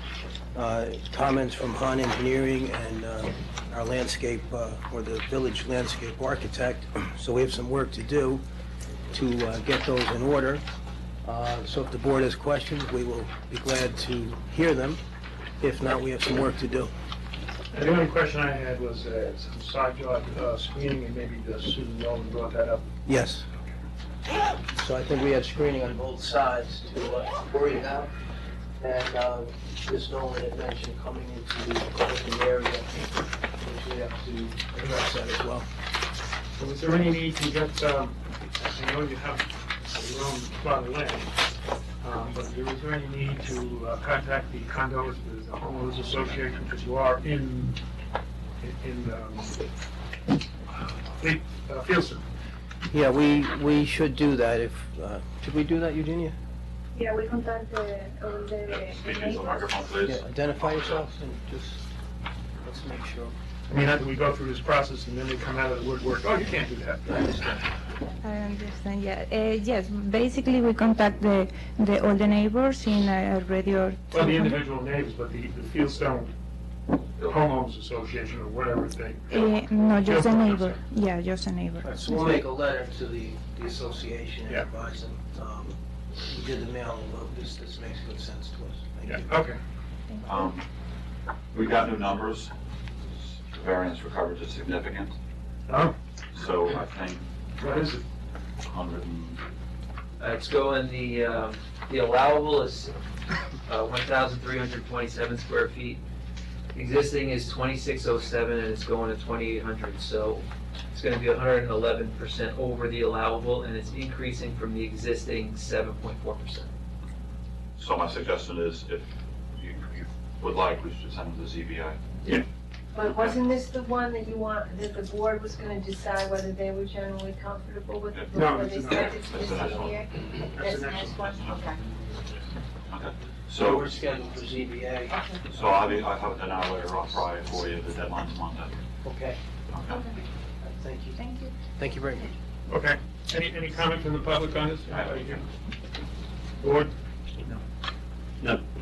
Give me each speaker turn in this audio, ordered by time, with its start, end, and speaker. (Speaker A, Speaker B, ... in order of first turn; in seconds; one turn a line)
Speaker A: 0.6-8.4
Speaker A: 9.1-10.6
Speaker A: 11.2-15.0
Speaker A: 15.6-16.9
Speaker B: 17.7-22.8
Speaker A: 23.1-23.5
Speaker A: 24.7-28.1
Speaker A: 28.8-35.7
Speaker B: 36.6-41.4
Speaker B: 42.0-47.8
Speaker B: 48.6-49.6
Speaker B: 51.2-52.2
Speaker A: 52.9-56.4
Speaker C: 57.0-59.6
Speaker D: 58.7-61.1
Speaker A: 60.0-61.9
Speaker A: 62.6-63.4
Speaker B: 63.7-67.6
Speaker A: 67.1-67.6
Speaker E: 68.2-74.6
Speaker B: 74.1-76.3
Speaker B: 77.2-80.8
Speaker E: 79.3-82.4
Speaker A: 81.8-89.3
Speaker B: 89.1-89.6
Speaker D: 90.2-90.7
Speaker D: 91.5-92.5
Speaker D: 93.1-95.2
Speaker B: 95.7-96.0
Speaker D: 96.3-97.2
Speaker B: 97.6-98.0
Speaker D: 98.7-99.4
Speaker F: 100.2-102.9
Speaker F: 103.7-106.0
Speaker F: 106.7-116.7
Speaker D: 117.8-122.0
Speaker C: 122.9-131.8
Speaker D: 128.1-130.1
Speaker B: 128.3-129.3
Speaker B: 130.6-131.7
Speaker D: 132.9-133.9
Speaker A: 133.6-135.8
Speaker C: 135.1-135.4
Speaker D: 135.5-138.8
Speaker A: 139.0-139.4
Speaker D: 139.7-140.1
Speaker C: 139.9-140.1
Speaker A: 140.6-141.2
Speaker E: 141.2-141.5
Speaker A: 141.8-142.3
Speaker B: 142.7-145.4
Speaker D: 144.9-145.4
Speaker B: 146.6-146.9